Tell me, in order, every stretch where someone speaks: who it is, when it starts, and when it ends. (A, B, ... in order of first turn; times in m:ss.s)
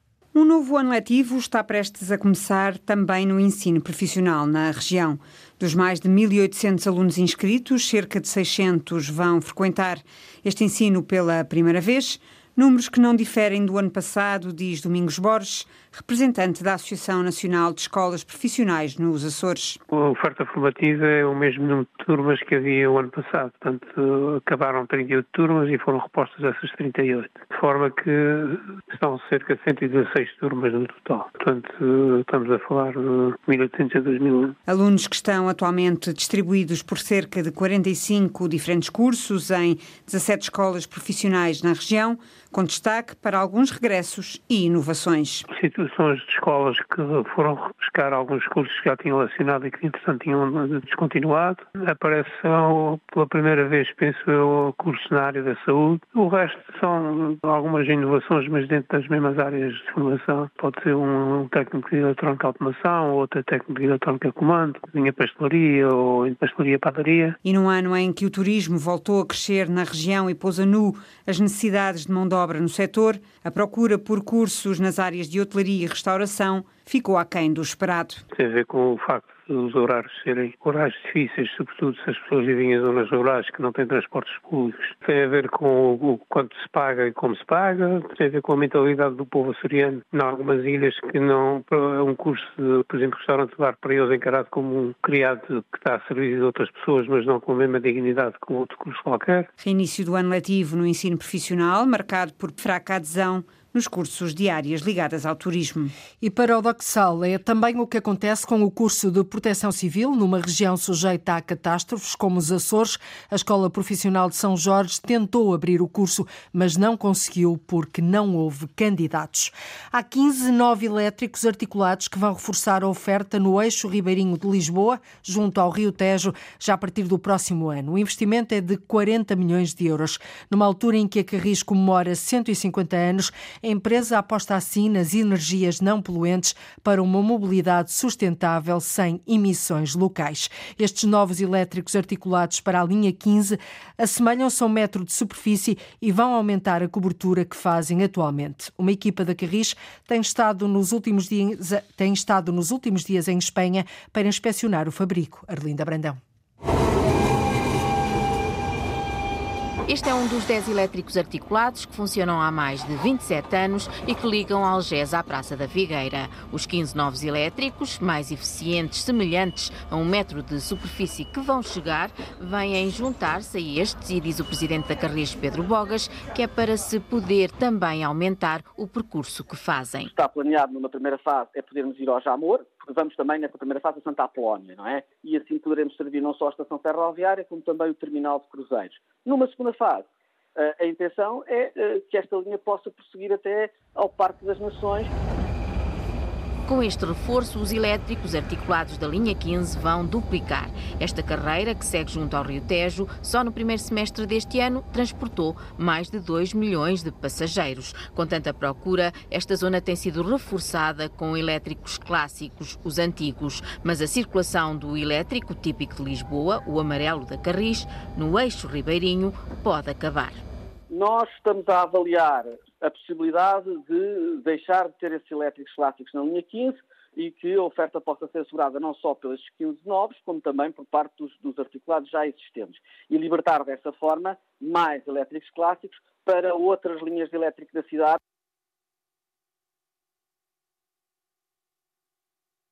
0:00.3-0:19.8 A
0:19.9-0:34.6 B
0:34.7-0:45.5 A
0:45.5-1:07.4 B
1:07.4-1:18.2 A
1:18.3-1:39.5 B
1:39.6-1:45.9 A
1:46.2-2:36.2 C
2:39.9-3:00.1 D
3:00.1-3:10.0 E
3:10.6-3:15.1 E
3:16.6-3:40.4 D
3:40.9-3:58.2 E